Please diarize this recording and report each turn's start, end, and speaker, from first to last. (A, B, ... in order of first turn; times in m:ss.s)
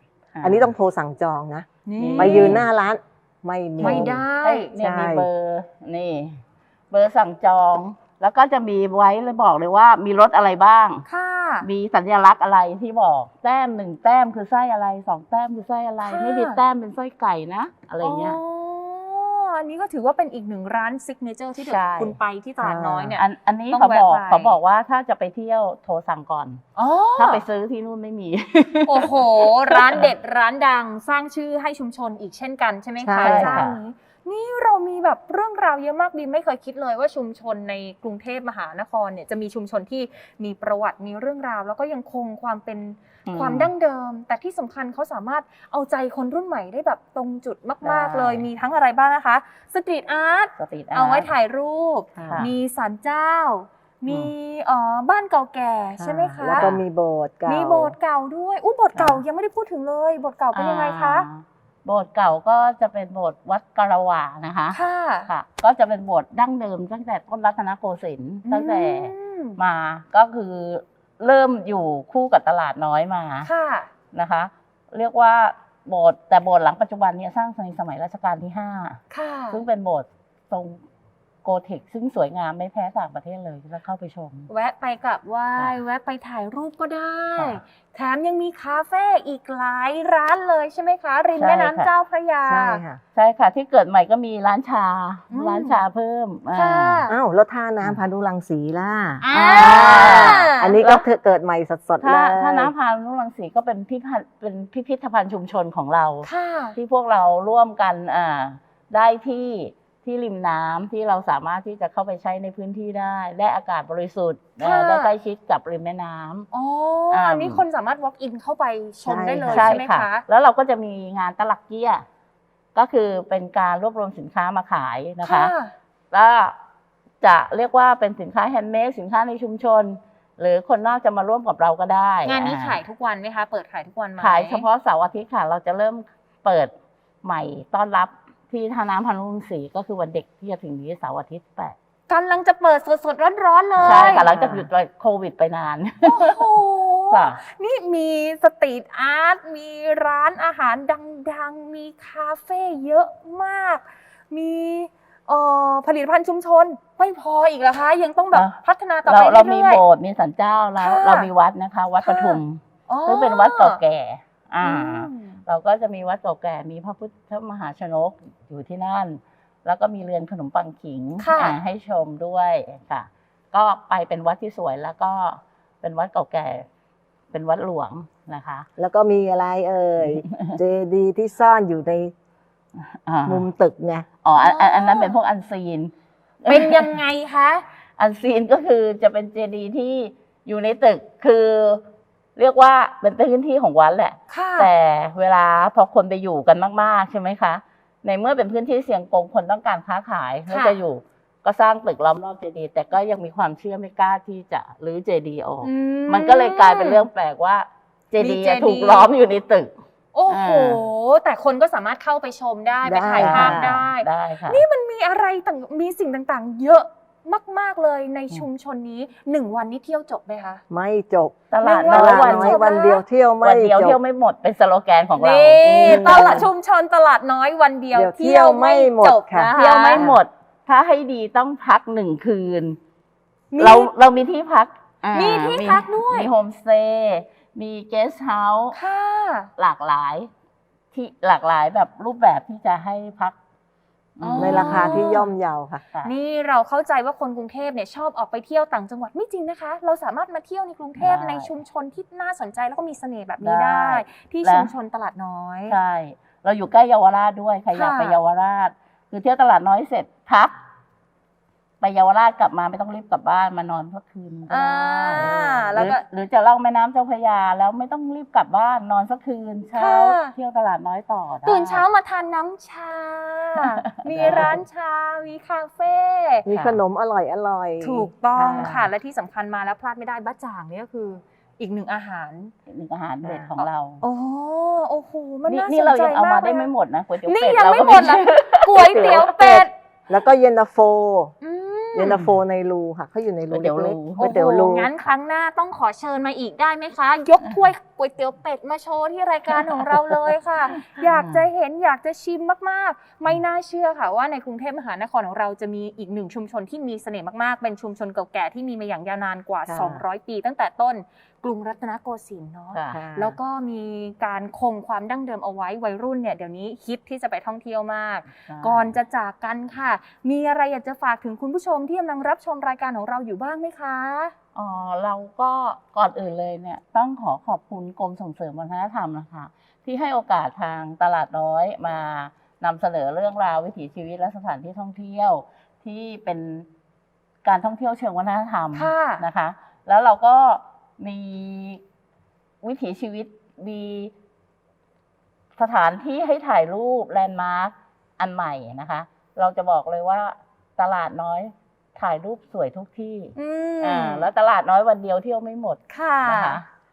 0:00.4-0:00.7 A
0:00.4-0:04.2 B
0:01.9-0:02.6 C
0:02.0-0:02.6 A
0:03.8-0:04.7 C
0:03.8-0:11.0 A
0:04.8-0:05.3 B
0:11.1-0:11.7 C
0:11.6-0:18.4 A
0:16.0-0:16.6 C
0:18.0-0:24.6 C
0:21.6-0:22.2 A
0:22.6-0:23.1 B
0:23.2-0:26.6 A
0:26.8-0:27.4 C
0:27.2-0:30.1 A
0:28.9-0:56.7 C
0:33.0-0:33.6 B
0:33.2-0:33.8 A
0:43.3-0:43.7 A
0:47.8-0:48.5 A
0:50.6-0:51.3 A
0:52.2-0:52.4 B
0:52.2-0:52.5 A
0:56.0-0:57.9 B
0:56.6-0:56.8 A
0:57.5-1:01.3 C
0:59.0-0:59.2 A
1:00.5-1:13.5 A
1:04.7-1:05.3 C
1:08.5-1:09.6 C
1:13.4-1:13.9 C
1:14.1-1:19.0 A
1:19.1-1:19.6 C
1:19.5-1:20.8 A
1:21.4-1:24.5 A
1:24.5-1:32.8 C
1:31.4-1:31.9 A
1:32.5-1:33.0 B
1:33.1-1:37.1 A
1:35.3-1:35.8 C
1:36.5-1:37.2 C
1:37.1-1:42.7 B
1:39.2-1:40.8 C
1:39.3-1:41.0 A
1:42.0-1:56.5 A
1:46.2-1:46.8 C
1:54.6-1:55.1 C
1:56.5-2:00.2 C
1:57.1-1:57.6 A
1:59.1-1:59.8 B
1:59.5-2:02.0 A
2:02.8-2:05.5 A
2:05.2-2:05.8 C
2:06.1-2:06.6 A
2:07.2-2:12.8 A
2:12.2-2:14.6 C
2:14.2-2:16.7 A
2:17.2-2:21.8 A
2:22.1-2:24.3 C
2:23.8-2:26.5 A
2:23.9-2:24.7 B
2:26.0-2:39.8 C
2:27.1-2:27.4 A
2:39.1-2:56.7 A
2:40.8-2:41.3 C
2:42.0-2:43.8 C
2:44.6-2:45.4 C
2:51.2-2:51.6 C
2:57.3-2:58.7 A
2:58.8-3:02.1 B
3:00.3-3:00.6 A
3:03.1-3:03.5 A
3:03.3-3:04.1 B
3:04.2-3:05.9 A
3:04.4-3:05.2 C
3:06.4-3:07.0 A
3:06.5-3:07.6 C
3:08.0-3:11.8 A
3:12.4-3:29.7 A
3:14.3-3:14.7 C
3:20.5-3:20.8 C
3:25.6-3:27.0 C
3:28.2-3:29.1 C
3:30.1-3:40.6 C
3:30.3-3:30.8 A
3:32.8-3:33.7 B
3:33.2-3:34.6 A
3:40.7-3:44.0 B
3:41.5-3:42.7 A
3:41.6-3:43.0 C
3:43.4-3:46.5 A
3:45.2-3:50.1 C
3:45.8-3:46.5 B
3:47.9-3:50.2 B
3:49.5-3:52.8 A
3:53.5-3:53.9 C
3:53.6-3:58.8 A
3:55.1-3:56.3 C
3:58.7-3:59.5 C
3:59.6-4:00.3 A
4:00.9-4:03.4 A
4:04.2-4:05.3 A
4:04.2-4:05.3 C
4:04.4-4:05.8 B
4:06.0-4:15.8 C
4:11.0-4:11.5 A
4:13.4-4:14.7 A
4:15.7-4:20.5 A
4:17.7-4:18.2 C
4:21.8-4:31.8 A
4:24.5-4:26.0 C
4:29.7-4:30.4 C
4:31.4-4:36.5 C
4:33.6-4:34.6 A
4:36.5-4:38.7 B
4:36.5-4:36.8 A
4:37.8-4:42.5 C
4:38.5-4:38.9 A
4:42.7-4:44.0 A
4:43.2-4:43.5 B
4:43.6-4:46.7 C
4:45.5-4:49.6 A
4:47.2-4:49.7 C
4:48.9-4:49.4 B
4:50.1-4:51.3 B
4:51.4-4:52.2 C
4:51.9-4:54.9 B
4:53.5-4:54.3 A
4:54.2-5:24.4 C
5:00.9-5:01.5 A
5:09.7-5:10.0 B
5:12.7-5:13.0 A
5:12.9-5:13.4 B
5:18.5-5:19.0 A
5:24.6-5:36.7 A
5:37.4-5:41.8 A
5:38.7-5:39.2 C
5:42.6-5:44.1 A
5:45.6-5:56.6 A
5:53.4-5:54.3 C
5:55.9-5:56.6 C